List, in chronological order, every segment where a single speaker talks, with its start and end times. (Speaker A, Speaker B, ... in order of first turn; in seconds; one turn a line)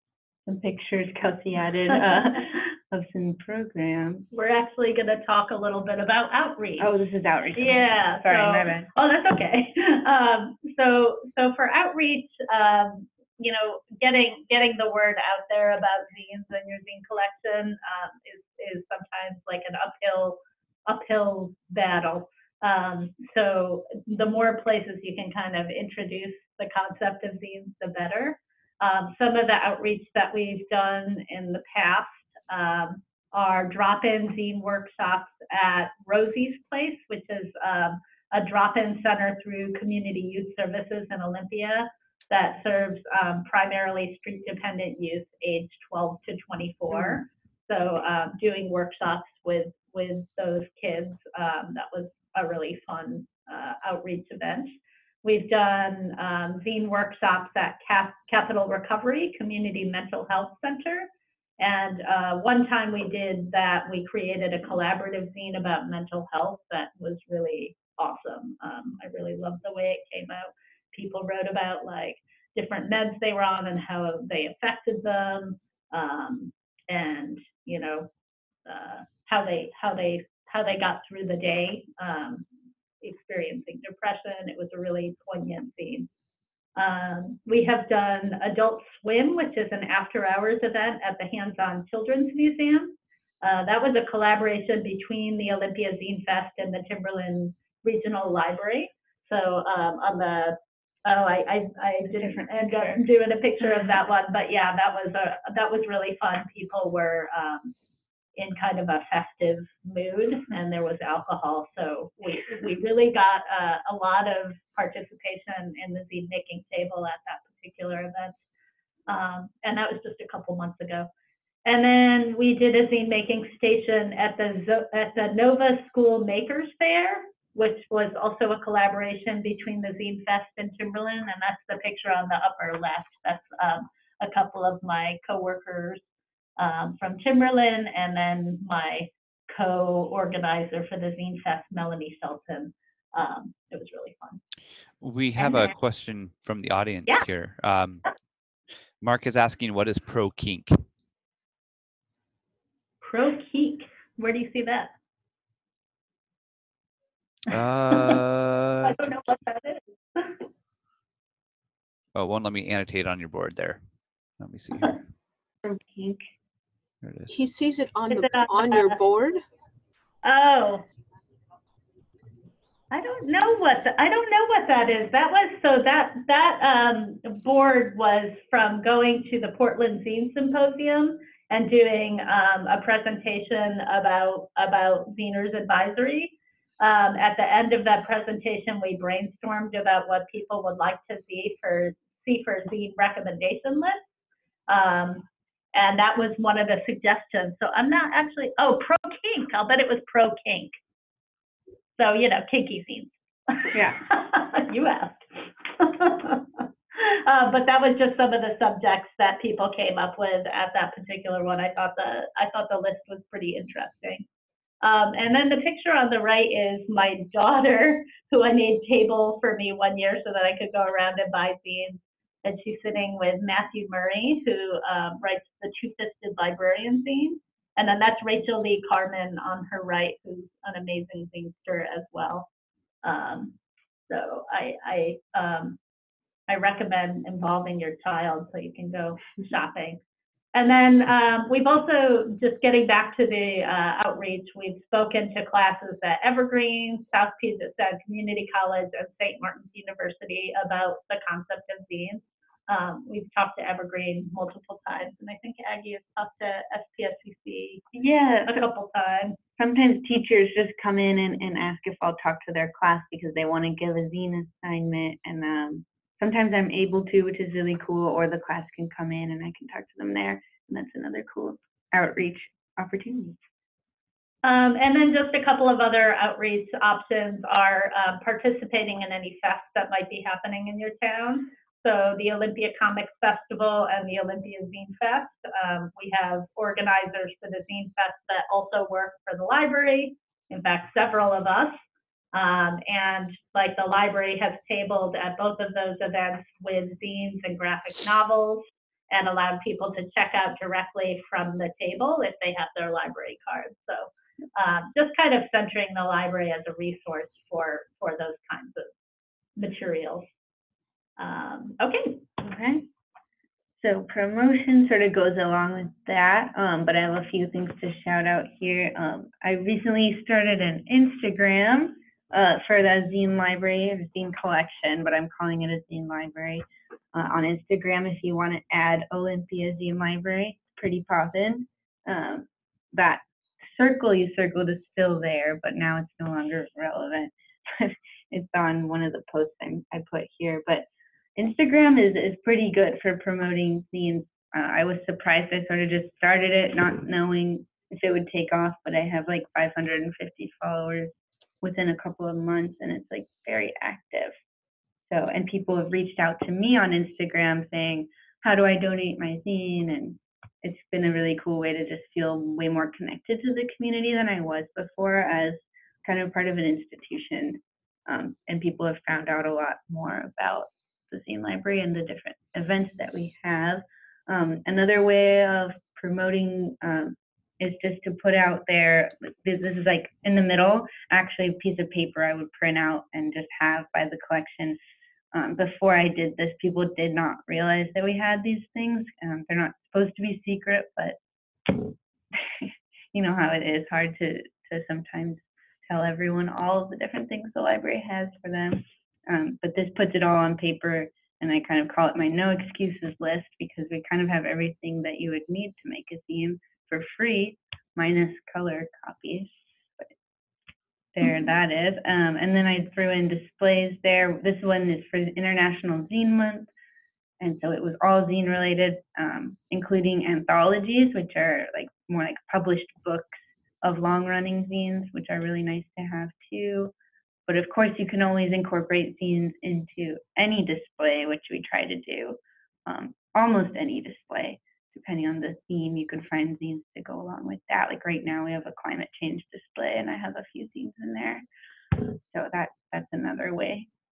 Speaker A: 0.4-4.2
Speaker B: 4.3-6.9
Speaker A: 6.8-8.9
Speaker B: 7.5-61.1
Speaker A: 46.9-47.2
Speaker B: 61.6-78.1
Speaker B: 78.6-82.5
Speaker B: 83.0-86.1
Speaker B: 86.8-107.7
Speaker A: 102.1-103.0
Speaker B: 108.3-118.4
Speaker B: 119.1-121.1
Speaker B: 121.6-136.0
Speaker B: 136.6-144.4
Speaker C: 145.0-148.0
Speaker B: 145.3-145.7
Speaker C: 149.0-150.8
Speaker B: 153.0-154.9
Speaker C: 157.5-159.1
Speaker B: 158.8-160.4
Speaker C: 162.1-163.8
Speaker C: 164.4-165.0
Speaker A: 165.6-166.2
Speaker C: 167.0-167.3
Speaker D: 167.3-169.4
Speaker B: 168.1-169.0
Speaker B: 170.2-170.8
Speaker B: 172.9-194.0
Speaker B: 194.7-200.7
Speaker B: 202.0-214.2
Speaker A: 203.7-204.0
Speaker B: 214.8-232.5
Speaker B: 233.0-233.5
Speaker B: 234.1-235.8
Speaker B: 236.5-240.0
Speaker B: 240.5-257.8
Speaker A: 257.9-258.6
Speaker B: 258.4-259.4
Speaker A: 259.6-273.4
Speaker B: 274.4-291.8
Speaker B: 292.3-308.9
Speaker B: 309.6-310.3
Speaker B: 311.2-312.2
Speaker A: 312.4-312.9
Speaker A: 313.8-354.3
Speaker A: 355.1-384.8
Speaker A: 385.3-410.1
Speaker A: 411.1-416.7
Speaker A: 417.4-426.9
Speaker A: 427.5-441.4
Speaker A: 441.9-443.9